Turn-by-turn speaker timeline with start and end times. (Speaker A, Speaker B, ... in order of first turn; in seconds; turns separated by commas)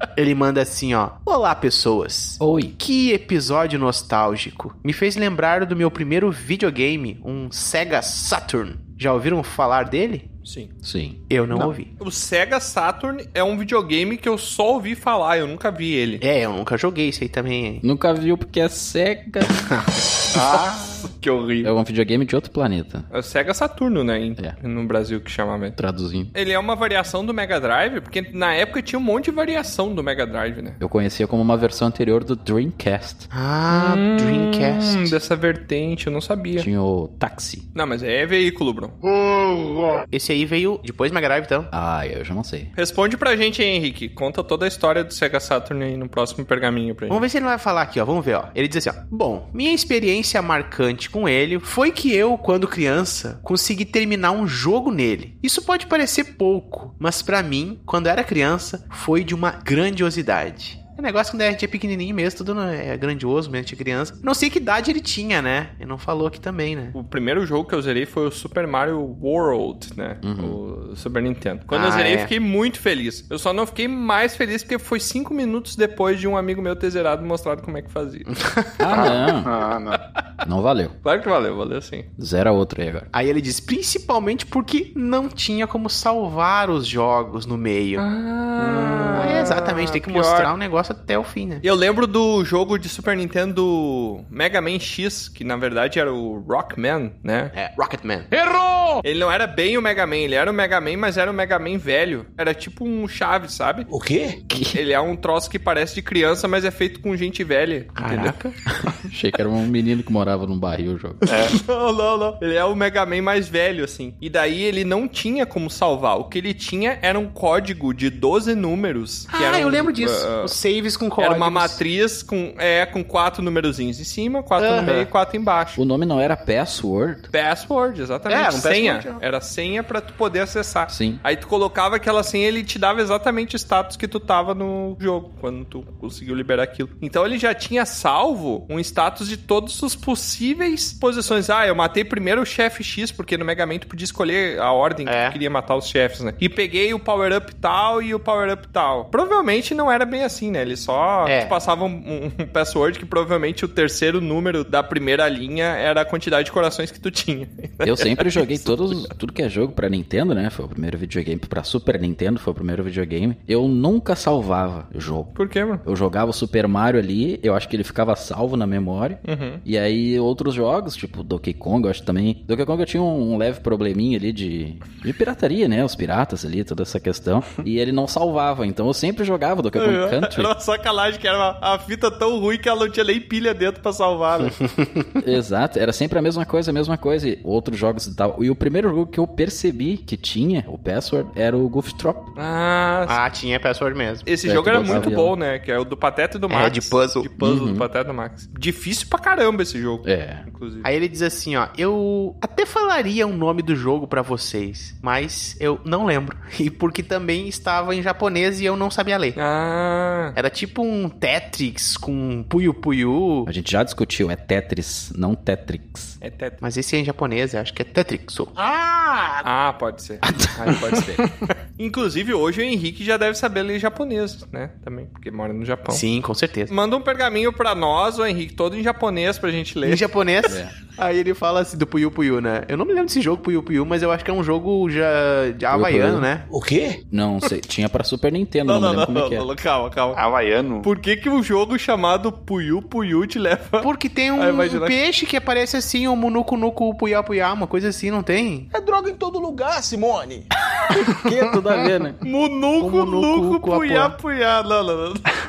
Speaker A: 0.1-10.3, Speaker B: 2.4-2.8, Speaker C: 10.4-10.7, Speaker B: 10.8-11.2, Speaker A: 11.3-11.9, Speaker C: 12.0-16.2, Speaker A: 16.2-17.8, Speaker B: 17.8-19.7, Speaker D: 20.3-21.0, Speaker C: 21.0-21.7, Speaker B: 21.6-23.1, Speaker C: 23.1-25.8, Speaker B: 25.8-26.3, Speaker C: 26.3-30.8, Speaker B: 30.8-33.3, Speaker A: 33.3-35.1, Speaker C: 33.7-36.7, Speaker B: 36.6-37.6, Speaker C: 37.7-39.0, Speaker E: 39.1-40.0, Speaker A: 40.1-41.7, Speaker B: 41.7-42.7, Speaker C: 42.8-47.2, Speaker A: 47.1-67.0, Speaker C: 66.9-78.3, Speaker B: 70.2-70.6, Speaker A: 71.7-72.3, Speaker A: 78.4-78.9, Speaker B: 78.8-79.5, Speaker D: 78.9-80.0, Speaker B: 80.4-80.9, Speaker C: 81.0-82.1, Speaker B: 82.2-83.1, Speaker A: 83.1-88.0, Speaker C: 88.0-90.5, Speaker D: 88.6-89.2, Speaker A: 89.1-91.6, Speaker C: 91.6-97.5, Speaker A: 97.5-98.3, Speaker C: 99.0-103.9, Speaker E: 103.9-104.4, Speaker B: 104.5-104.8, Speaker C: 104.7-108.0, Speaker A: 108.0-108.5, Speaker B: 108.0-111.2, Speaker D: 111.3-111.6, Speaker C: 111.5-120.5, Speaker A: 119.3-121.8, Speaker C: 121.2-125.8, Speaker A: 124.6-125.1, Speaker B: 125.8-127.3, Speaker C: 127.3-158.8, Speaker A: 128.3-129.2, Speaker B: 130.9-131.2, Speaker A: 145.1-145.4, Speaker A: 151.2-151.6, Speaker B: 157.8-180.5, Speaker C: 165.3-165.8, Speaker C: 169.2-169.6, Speaker C: 179.8-184.5, Speaker A: 184.8-185.1, Speaker B: 185.2-192.3, Speaker C: 192.3-193.2, Speaker A: 193.1-194.2, Speaker C: 194.2-200.9, Speaker B: 194.4-195.3, Speaker A: 194.8-195.1, Speaker A: 196.5-197.3, Speaker B: 197.4-197.9, Speaker B: 200.0-200.4, Speaker A: 200.8-209.4, Speaker C: 209.3-210.3, Speaker A: 210.3-213.5, Speaker B: 213.5-216.2, Speaker C: 216.2-216.6, Speaker A: 216.6-218.5, Speaker E: 218.6-219.4, Speaker C: 219.4-221.2, Speaker B: 220.2-221.2, Speaker C: 221.8-226.0, Speaker A: 225.9-226.7, Speaker C: 226.7-230.1, Speaker A: 229.8-236.5, Speaker B: 230.4-230.7, Speaker B: 235.7-236.3, Speaker E: 236.5-237.0, Speaker B: 237.1-239.4, Speaker C: 238.7-240.2, Speaker D: 240.1-240.9, Speaker C: 240.8-244.9, Speaker A: 243.8-248.7, Speaker E: 248.7-250.5, Speaker B: 250.9-252.2, Speaker C: 252.2-255.3, Speaker A: 252.8-254.1